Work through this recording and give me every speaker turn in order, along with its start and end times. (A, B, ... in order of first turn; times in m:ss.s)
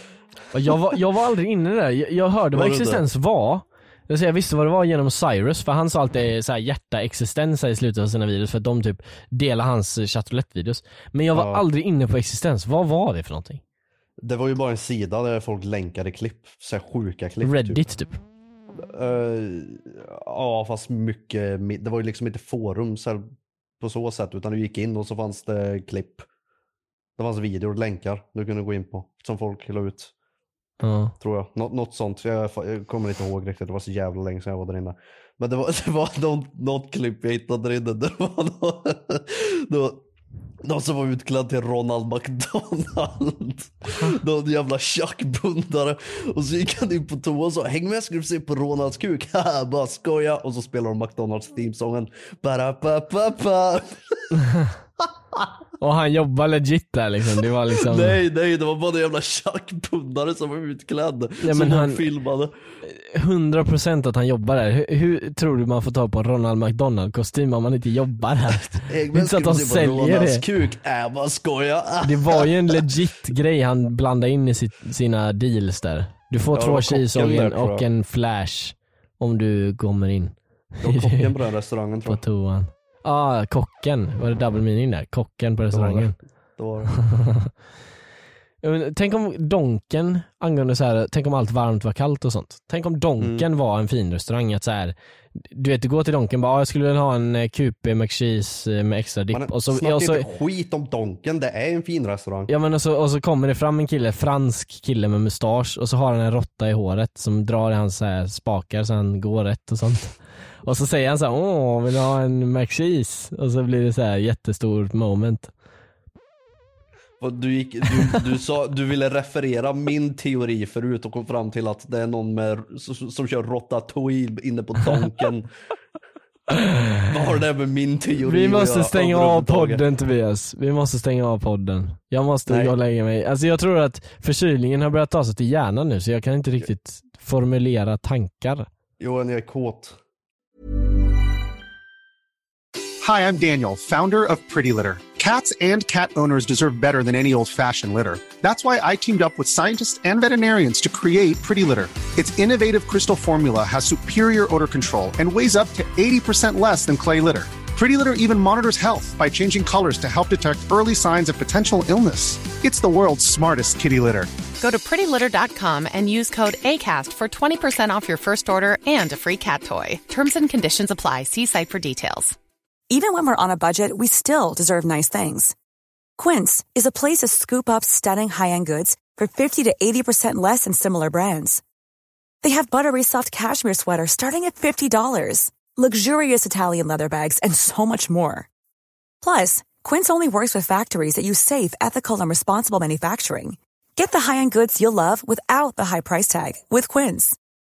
0:00.5-0:13.6 A
0:00.7-0:01.0 B
0:02.5-0:03.0 B
0:11.3-0:11.6 B
0:14.2-0:17.8 B
0:17.4-0:18.2 A
0:18.7-0:26.3 B
0:27.2-0:30.1 B
0:30.8-0:31.1 A
0:31.2-0:40.0 B
0:40.6-0:54.3 B
0:55.0-0:55.4 B
0:55.8-0:58.2 A
0:57.7-1:02.5 B
1:01.4-1:02.0 A
1:02.8-1:10.4 A
1:08.8-1:12.8 B
1:12.0-1:21.3 A
1:16.5-1:17.9 B
1:20.8-1:22.2 B
1:22.0-1:26.1 A
1:25.7-1:26.9 B
1:27.0-1:27.5 A
1:28.6-1:40.3 A
1:33.2-1:33.5 B
1:39.3-1:42.5 B
1:42.5-1:55.5 A
1:57.2-2:05.5 B
2:06.5-2:07.0 A
2:07.1-2:09.8 B
2:08.2-2:18.7 A
2:12.5-2:12.7 B
2:19.0-2:20.0 B
2:23.0-2:44.3 C
2:44.6-2:52.4 D
2:52.9-2:55.5 E
2:56.2-3:01.6 E
3:02.4-3:08.5 E
3:09.2-3:17.4 E